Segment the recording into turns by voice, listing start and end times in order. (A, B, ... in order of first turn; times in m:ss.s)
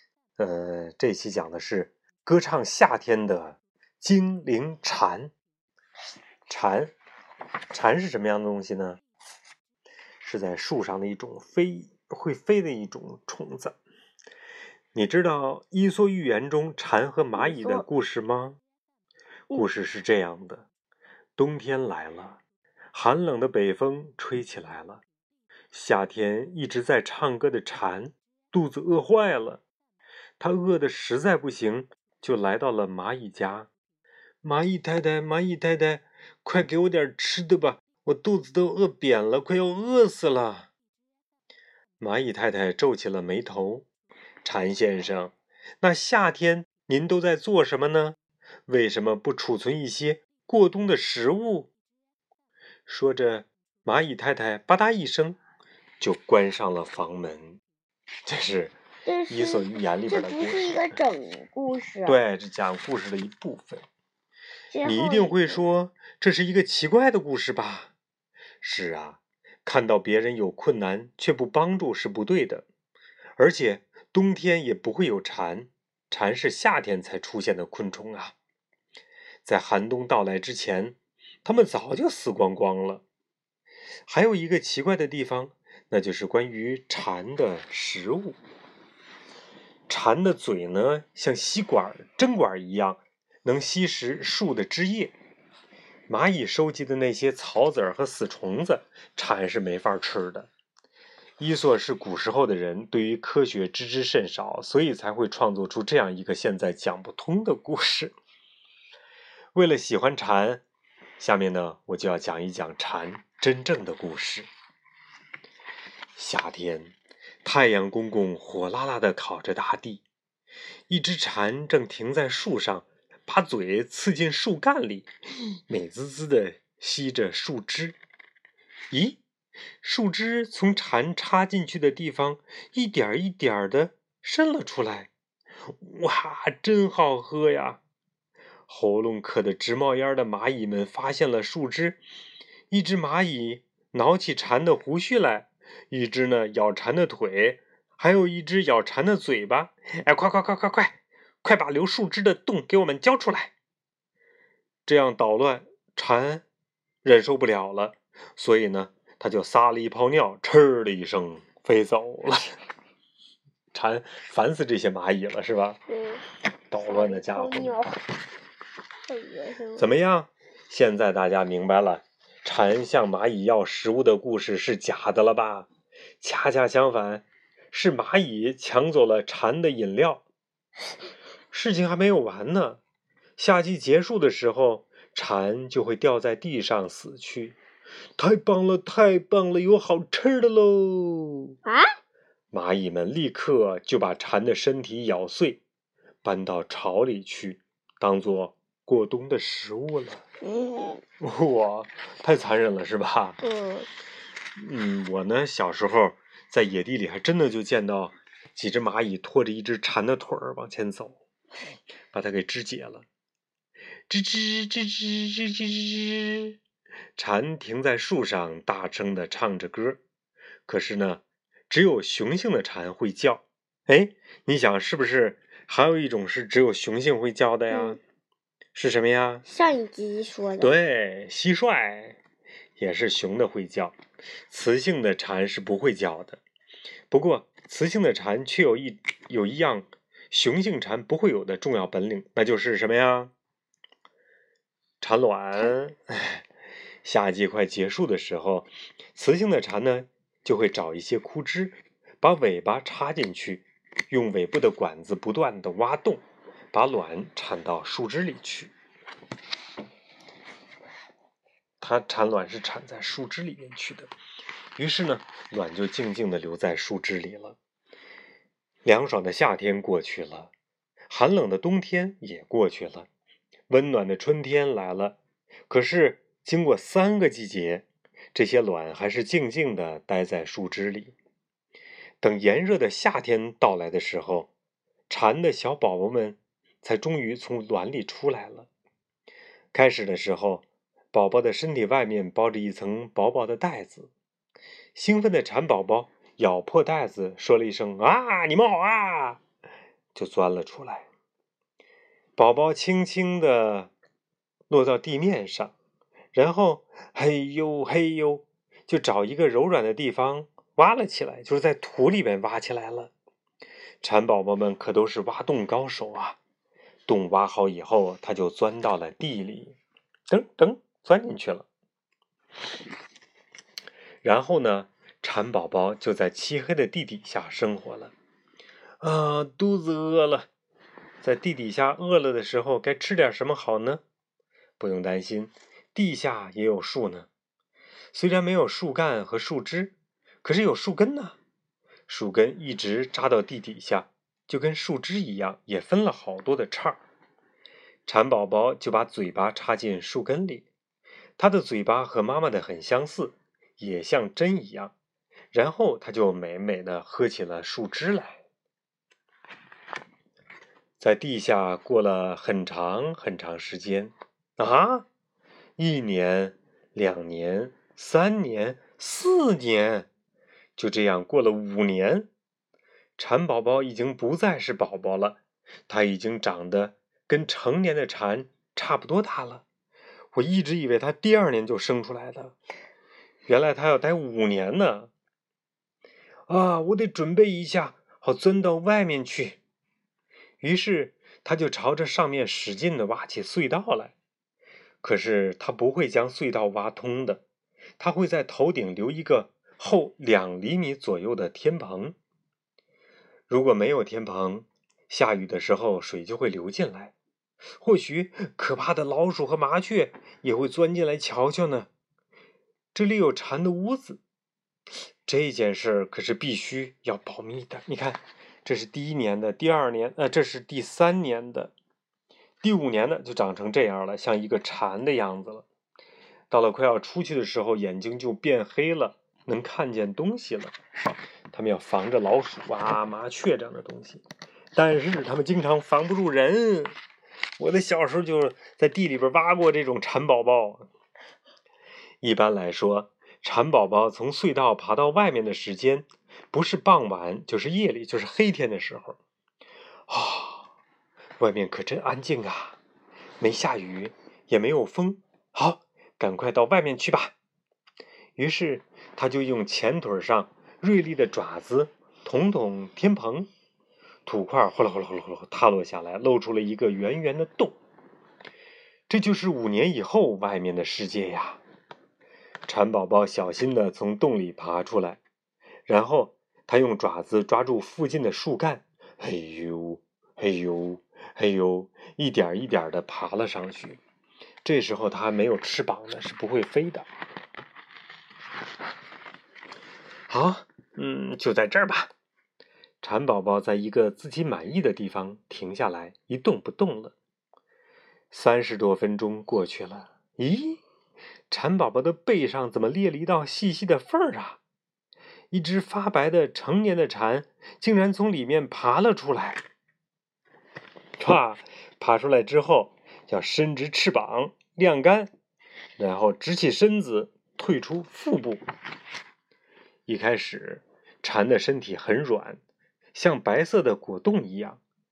0:00.4-0:05.3 A
0:06.5-0:06.9 A
0:07.7-0:09.0 A
0:10.2-0:13.8 A
0:14.9-0:18.6 A
0:17.4-0:17.8 B
0:19.5-0:20.7 A
0:21.4-0:22.4 A
0:22.9-0:25.0 A
0:25.7-0:29.6 A
0:30.4-0:33.7 A
0:34.4-0:40.7 A
0:42.0-0:43.9 A
0:44.4-0:51.7 A
0:52.9-0:55.4 A
0:56.0-0:57.6 A
0:58.3-0:58.8 A
0:59.1-1:02.2 B
0:59.3-1:01.0 A
1:02.1-1:03.9 A
1:04.7-1:05.6 B
1:04.8-1:07.9 A
1:08.6-1:12.7 A
1:13.4-1:18.4 A
1:19.4-1:23.0 A
1:24.1-1:28.4 A
1:29.9-1:35.1 A
1:36.1-1:40.5 A
1:41.4-1:48.1 A
1:49.5-1:50.6 A
1:51.2-1:54.5 A
1:56.2-1:56.9 A
1:57.4-2:00.0 A
2:00.9-2:05.1 A
2:05.7-2:08.0 A
2:08.9-2:09.2 A
2:09.8-2:15.1 A
2:15.8-2:17.8 A
2:18.7-2:22.0 A
2:22.7-2:33.5 A
2:34.9-2:36.4 A
2:37.0-2:42.6 A
2:43.7-2:45.8 A
2:45.9-2:46.2 B
2:46.7-2:47.8 A
2:46.8-2:48.0 B
2:49.1-2:49.9 B
2:49.8-2:55.7 A
2:56.2-3:00.2 A
3:01.5-3:02.8 A
3:03.4-3:07.6 A
3:08.2-3:11.6 A
3:11.6-3:11.9 B
3:12.5-3:15.6 A
3:16.2-3:20.2 A
3:20.4-3:21.0 B
3:21.2-3:23.4 A
3:23.4-3:23.9 B
3:24.6-3:31.2 A
3:32.1-3:33.1 A
3:34.1-3:36.6 A
3:37.2-3:40.0 A
3:40.7-3:48.0 A
3:47.7-3:48.0 B
3:48.7-3:49.4 A
3:49.5-3:50.7 B
3:50.6-3:52.2 A
3:52.8-3:54.0 A
3:54.5-3:56.4 A
3:57.1-4:03.3 A
4:05.0-4:06.4 A
4:07.0-4:18.7 A
4:21.8-4:24.1 A
4:24.8-4:27.6 A
4:28.8-4:30.5 A
4:31.1-4:33.1 A
4:33.7-4:41.2 A
4:42.2-4:44.5 A
4:45.1-4:48.7 A
4:49.7-4:54.1 A
4:55.0-4:59.4 A
5:00.1-5:01.1 A
5:02.4-5:03.9 A
5:04.7-5:05.7 A
5:06.3-5:13.1 A
5:14.0-5:16.4 A
5:17.1-5:19.8 A
5:20.3-5:21.7 A
5:24.2-5:28.1 A
5:29.0-5:30.5 A
5:31.2-5:34.0 A
5:34.8-5:37.3 A
5:38.1-5:41.4 A
5:42.1-5:47.0 A
5:48.1-5:50.7 A
5:51.4-5:54.9 A
5:55.5-5:58.4 A
6:01.0-6:05.1 A
6:05.8-6:10.1 A
6:10.8-6:12.3 A
6:13.2-6:19.6 A
6:20.3-6:22.6 A
6:23.5-6:25.1 A
6:26.5-6:29.6 A
6:30.6-6:34.2 A
6:35.0-6:37.4 A
6:38.0-6:42.2 A
6:43.5-6:47.1 A
6:47.8-6:51.9 A
6:52.9-6:54.2 A
6:55.3-7:01.7 A
7:02.6-7:05.7 A
7:06.5-7:10.8 A
7:11.5-7:14.2 A
7:14.8-7:17.0 A
7:17.6-7:20.9 A
7:22.2-7:29.2 A
7:30.1-7:30.7 A
7:31.4-7:32.8 A
7:33.4-7:37.3 A
7:38.4-7:43.5 A
7:44.3-7:47.8 A
7:49.1-7:51.6 A
7:52.7-7:55.2 A
7:55.9-8:04.0 A
8:04.6-8:07.1 A
8:10.3-8:12.1 A
8:13.0-8:17.2 A
8:18.3-8:20.8 A
8:21.5-8:24.6 A
8:25.5-8:29.6 A
8:31.2-8:35.3 A
8:36.0-8:38.6 A
8:40.1-8:42.6 A
8:43.2-8:44.8 A